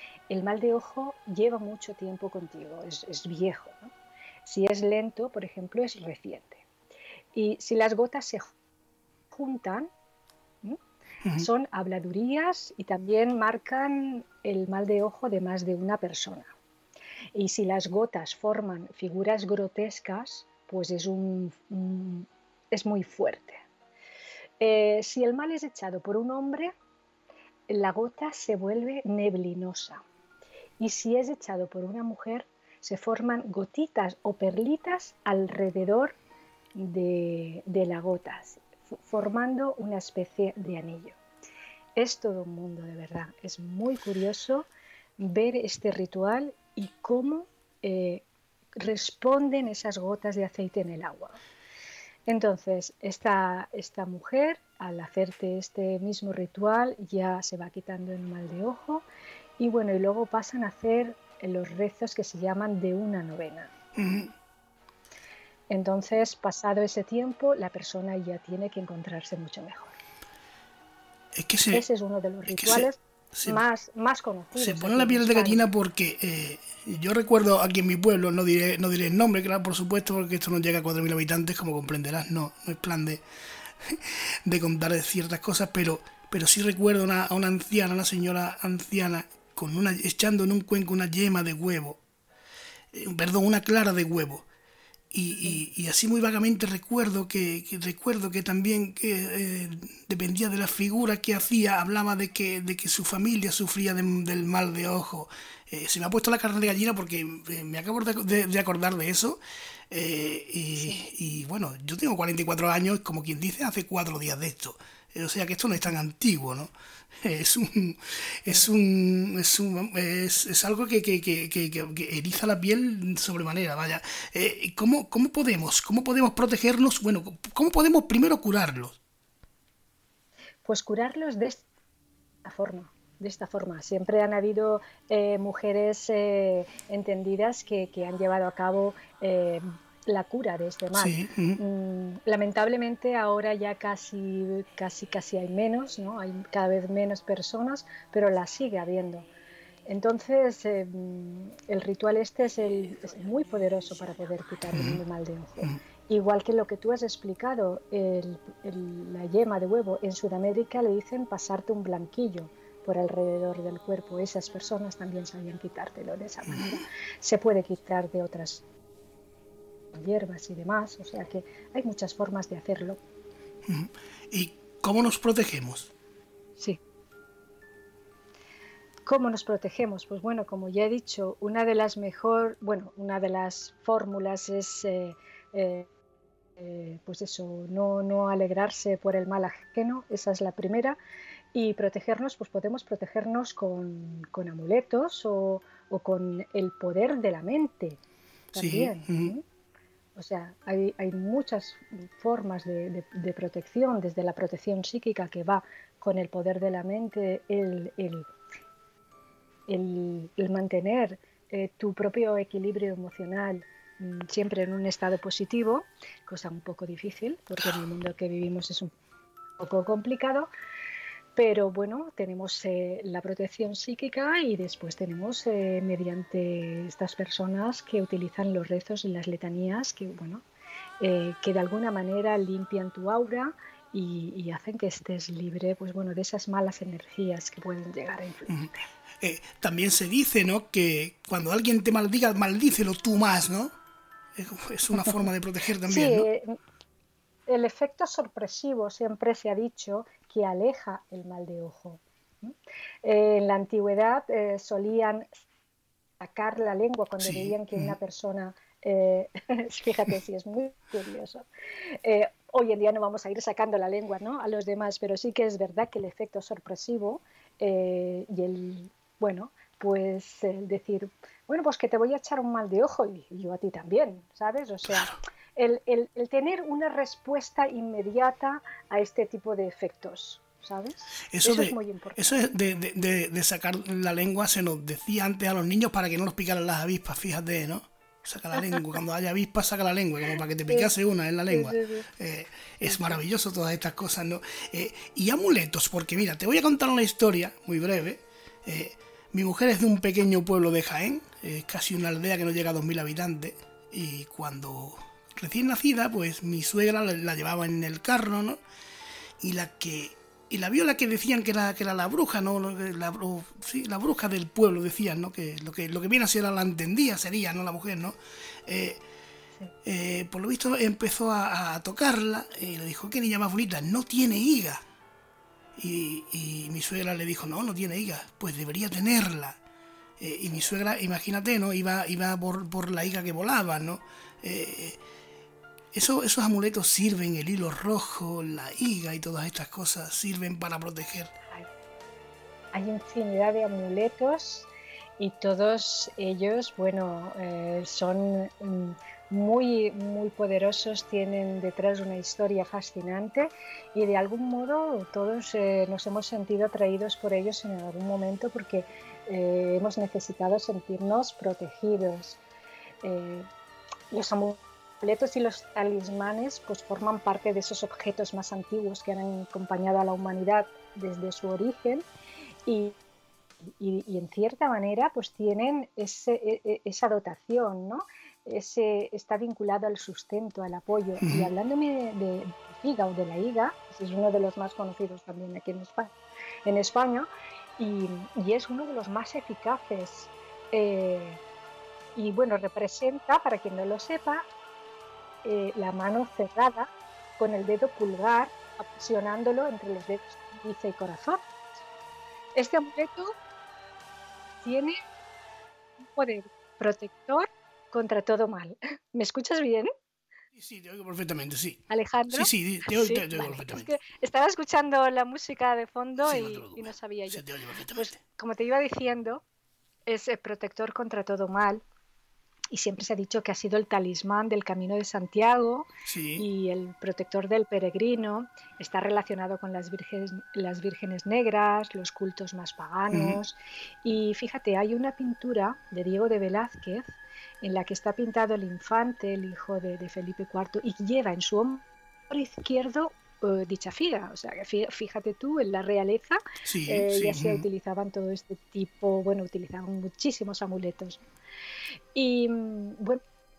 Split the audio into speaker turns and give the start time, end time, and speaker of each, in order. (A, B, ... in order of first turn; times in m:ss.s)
0:00.3-0:03.9 A
0:04.4-0:06.6 A
0:07.4-0:08.5 A
0:09.3-0:09.9 A
0:11.4-0:16.5 A
0:17.4-0:23.6 A
0:24.6-0:26.7 A
0:27.7-0:30.0 A
0:30.8-0:36.2 A
0:36.8-0:41.2 A
0:42.0-0:44.7 A
0:45.2-0:48.2 A
0:48.8-0:51.4 A
0:52.3-0:59.0 A
0:59.6-1:03.7 A
1:04.0-1:04.3 B
1:05.7-1:10.0 A
1:11.4-1:11.8 B
1:11.7-1:15.6 A
1:12.5-1:13.6 B
1:14.6-1:32.0 B
1:32.9-1:34.5 B
1:35.1-2:09.0 B
2:10.6-2:11.7 A
2:12.4-2:29.3 A
2:21.0-2:21.6 B
2:29.9-2:48.6 A
2:34.7-2:35.0 B
2:46.5-2:46.7 B
2:49.9-2:53.0 A
2:53.6-2:55.9 B
2:59.1-3:05.9 A
3:06.6-3:11.0 A
3:11.5-3:18.0 A
3:18.5-3:19.3 B
3:18.6-3:19.4 A
3:20.2-3:28.3 A
3:29.7-3:38.9 A
3:39.6-3:40.5 A
3:41.4-3:50.4 A
3:51.0-3:58.9 A
3:58.5-4:03.8 B
4:04.4-4:06.3 B
4:05.9-4:06.6 A
4:07.5-4:15.3 A
4:16.2-4:42.4 A
4:17.2-4:18.0 B
4:34.9-4:35.2 B
4:41.3-5:08.6 B
4:51.5-4:52.1 A
4:52.8-4:53.2 A
5:09.4-5:19.0 B
5:19.8-5:24.8 B
5:25.8-5:29.6 B
5:30.2-5:35.0 B
5:35.9-5:41.3 B
5:42.7-6:02.4 A
6:03.0-6:03.5 A
6:04.1-6:12.0 A
6:12.7-6:13.0 A
6:13.8-6:26.1 A
6:21.2-6:21.5 B
6:26.7-6:31.4 A
6:32.2-6:34.5 A
6:35.4-6:36.9 A
6:37.4-6:41.4 A
6:42.6-6:43.4 A
6:44.6-6:45.0 A
6:46.2-6:49.9 A
6:50.6-6:53.9 B
6:51.9-6:59.4 A
6:56.2-6:58.2 B
7:00.1-7:01.8 A
7:02.7-7:31.2 A
7:06.1-7:06.4 B
7:13.1-7:13.4 B
7:26.6-7:27.7 B
7:32.2-7:33.2 A